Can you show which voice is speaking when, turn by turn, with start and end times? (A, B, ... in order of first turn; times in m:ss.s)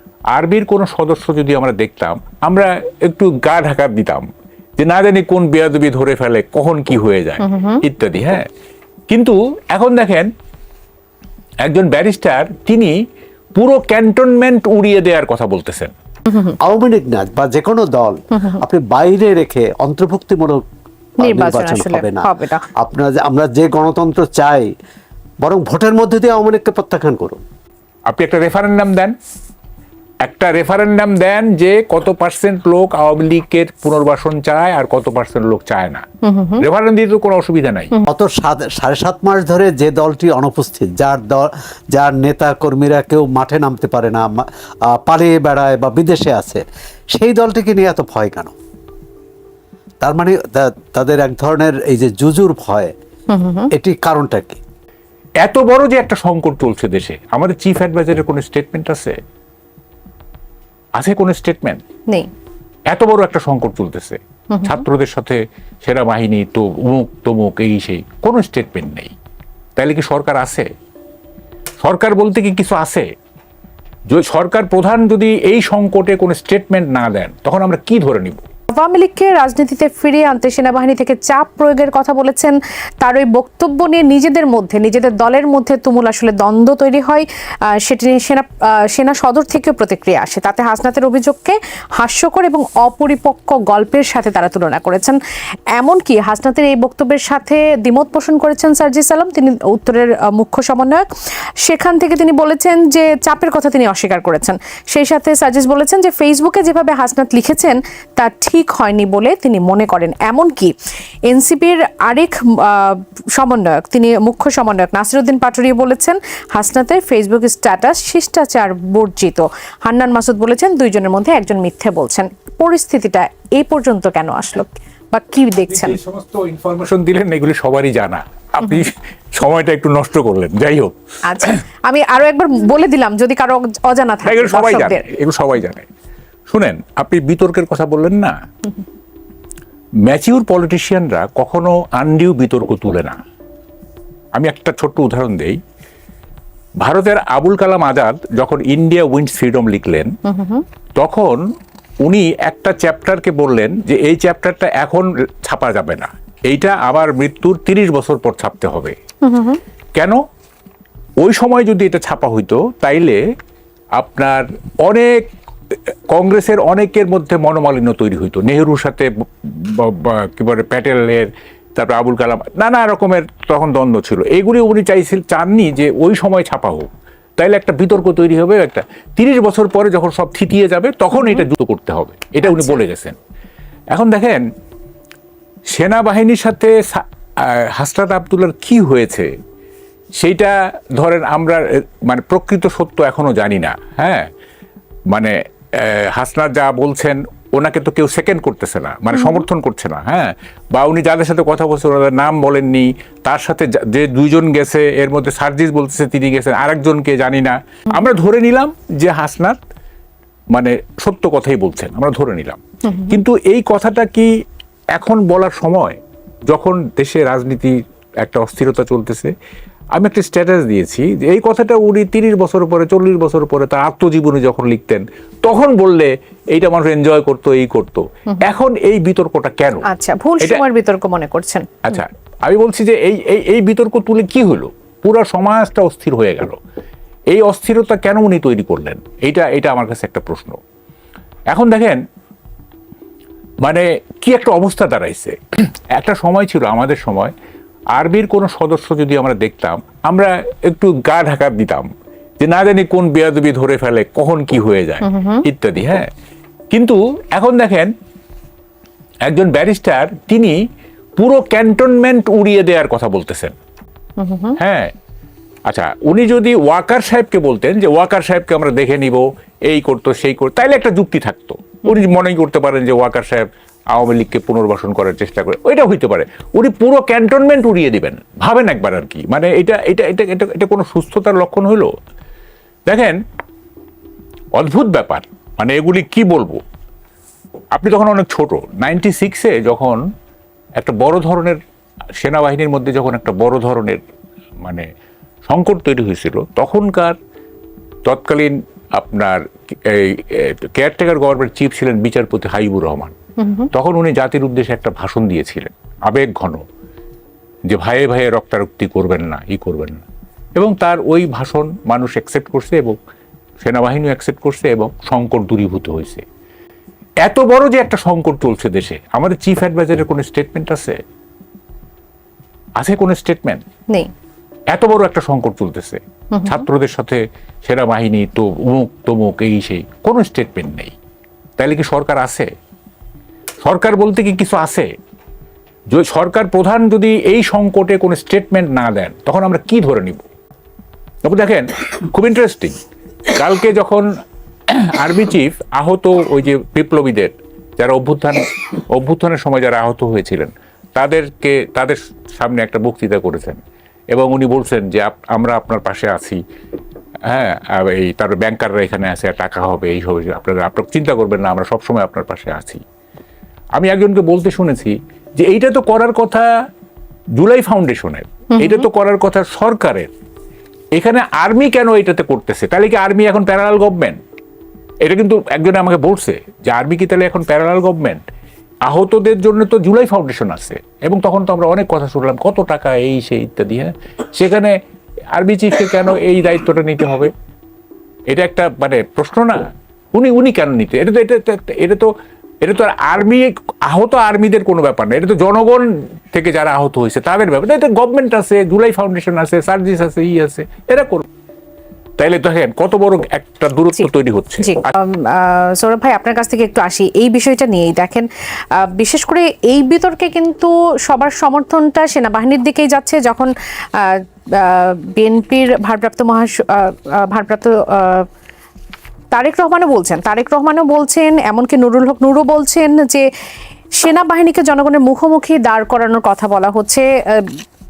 0:00.3-0:04.3 A
0:04.8-0:08.5 A
0:07.4-0:07.8 B
0:09.1-0:10.3 A
0:11.6-0:13.0 A
0:13.6-0:15.9 A
0:16.3-0:16.6 B
0:16.6-0:20.6 C
0:18.3-0:18.6 B
0:21.2-0:24.7 C
0:21.2-0:22.7 B
0:25.4-0:27.4 C
0:28.1-0:29.1 A
0:30.2-0:36.0 A
0:36.2-0:36.6 B
0:36.6-0:37.9 A
0:38.1-0:46.6 C
0:47.1-0:48.6 C
0:50.0-0:52.9 C
0:53.3-0:53.7 B
0:53.7-0:54.6 C
0:55.4-0:59.2 A
1:01.0-1:01.8 A
1:02.9-1:09.1 A
1:04.5-1:04.8 B
1:09.8-1:10.7 A
1:11.8-1:13.1 A
1:14.1-1:18.4 A
1:18.7-1:27.2 B
1:27.8-1:35.2 B
1:35.7-1:41.1 B
1:41.6-1:50.8 B
1:51.3-2:06.0 B
2:05.7-2:11.6 A
2:11.3-2:15.0 B
2:14.2-2:15.9 A
2:16.5-2:18.4 A
2:20.0-2:23.2 A
2:24.4-2:25.6 A
2:26.8-2:30.1 A
2:30.3-2:30.7 B
2:31.0-2:31.4 A
2:32.0-2:39.0 A
2:39.2-2:39.6 B
2:40.0-2:40.2 A
2:41.2-2:43.2 A
2:44.0-2:45.3 A
2:46.1-3:03.2 A
3:01.1-3:01.4 B
3:02.4-3:02.8 B
3:03.9-3:04.4 A
3:05.7-3:09.3 A
3:10.2-3:14.3 A
3:15.1-3:29.6 A
3:30.5-3:34.3 A
3:35.0-3:39.3 A
3:39.9-3:49.9 A
3:49.9-3:52.0 B
3:51.8-3:56.6 A
3:57.3-4:00.6 A
4:01.5-4:02.0 A
4:03.6-4:05.4 A
4:05.9-4:07.3 A
4:07.9-4:11.9 A
4:12.4-4:16.1 A
4:15.0-4:15.4 B
4:16.7-4:17.9 A
4:19.3-4:20.6 A
4:21.2-4:23.5 A
4:24.2-4:24.6 B
4:24.6-4:24.9 A
4:25.7-4:41.9 A
4:42.9-4:43.2 A
4:44.6-4:46.6 A
4:47.7-4:50.0 A
4:50.8-4:51.6 A
4:52.2-4:54.0 A
4:55.5-4:57.2 A
4:58.1-5:03.2 A
5:03.4-5:03.7 B
5:03.7-5:06.6 A
5:07.7-5:13.0 A
5:13.6-5:16.2 A
5:17.2-5:21.0 A
5:22.8-5:23.6 A
5:24.7-5:31.0 A
5:26.3-5:26.7 B
5:31.6-5:32.5 A
5:33.6-5:34.9 A
5:35.9-5:40.3 A
5:41.2-5:44.1 A
5:44.7-5:53.6 A
5:54.1-5:56.4 A
5:57.3-6:02.8 A
6:03.8-6:06.5 A
6:07.4-6:10.1 A
6:08.6-6:08.8 B
6:11.0-6:14.2 A
6:15.0-6:18.2 A
6:18.8-6:24.8 A
6:25.3-6:27.3 A
6:28.3-6:32.1 A
6:32.6-6:41.3 A
6:42.2-6:44.9 A
6:44.6-6:58.3 B
6:59.3-7:03.3 B
7:04.0-7:07.6 B